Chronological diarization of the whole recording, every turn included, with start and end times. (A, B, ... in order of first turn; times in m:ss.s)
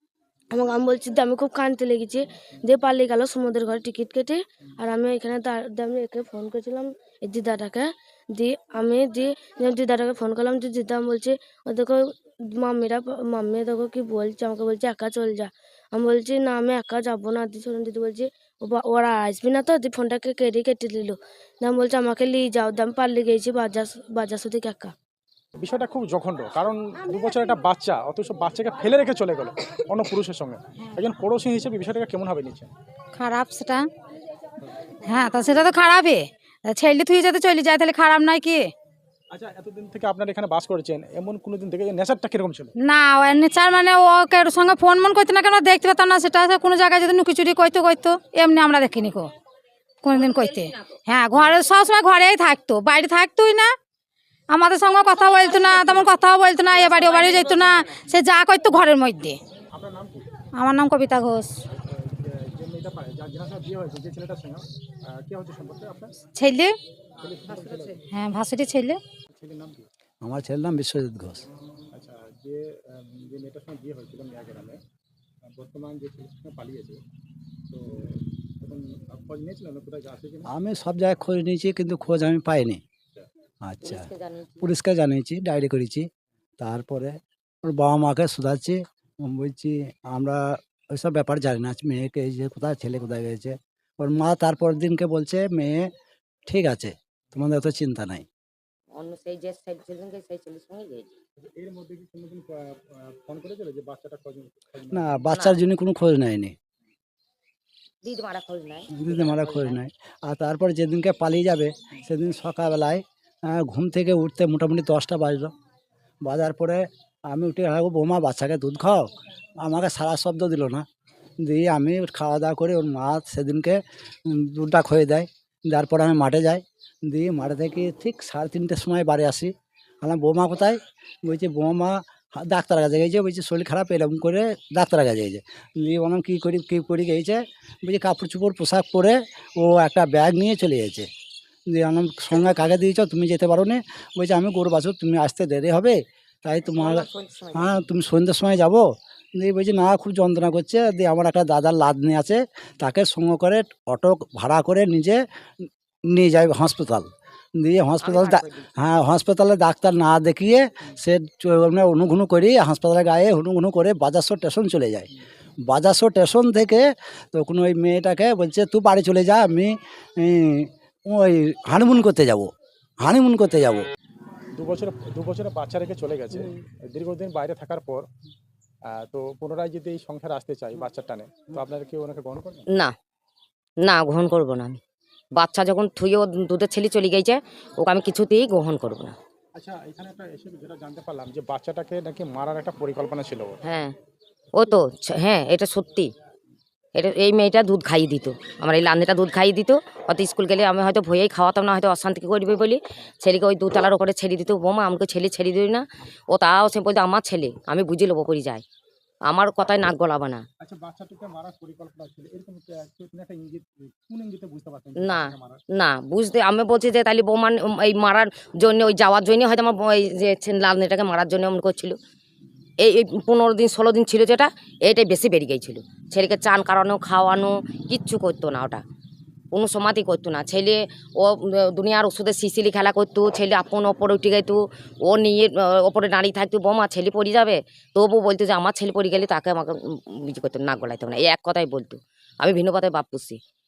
0:00.5-0:24.9 A
0:25.6-0:32.7 B
0:33.1-0:33.9 C
0:35.0-0:38.7 C
0:39.3-0:42.7 B
0:42.8-0:49.3 C
0:50.0-0:53.7 C
0:54.5-0:59.4 C
0:59.7-1:00.3 B
1:00.6-1:01.5 C
1:01.7-1:06.1 B
1:06.4-1:06.7 C
1:07.2-1:08.0 B
1:08.1-1:09.0 C
1:09.3-1:09.8 B
1:10.2-1:11.4 D
1:11.9-1:14.8 B
1:15.6-1:17.0 B
1:17.7-1:20.5 B
1:20.5-1:22.8 D
1:23.6-1:24.1 D
1:23.8-1:24.7 E
1:24.6-1:26.1 D
1:26.6-1:30.4 D
1:31.0-1:35.9 D
1:36.5-1:38.2 D
1:38.9-1:41.1 E
1:41.4-1:45.3 B
1:44.9-1:46.5 D
1:45.3-1:45.6 E
1:48.0-1:49.8 E
1:49.0-1:55.5 D
1:56.2-1:59.1 D
1:59.6-2:00.8 D
2:01.4-2:09.5 D
2:10.0-2:21.1 D
2:21.7-2:28.8 D
2:26.8-2:27.7 E
2:29.4-2:35.2 D
2:36.1-2:37.1 D
2:37.6-2:45.1 D
2:38.0-2:38.7 E
2:45.7-2:52.5 D
2:53.0-2:53.8 D
2:54.5-2:58.0 B
2:58.9-3:02.6 B
3:03.8-3:04.8 E
3:05.4-3:09.1 E
3:09.6-3:13.6 B
3:13.6-3:13.9 E
3:14.5-3:16.1 E
3:17.0-3:28.6 E
3:29.3-3:30.4 E
3:30.6-3:35.6 B
3:35.0-3:42.0 E
3:42.8-3:48.8 E
3:49.5-4:03.4 E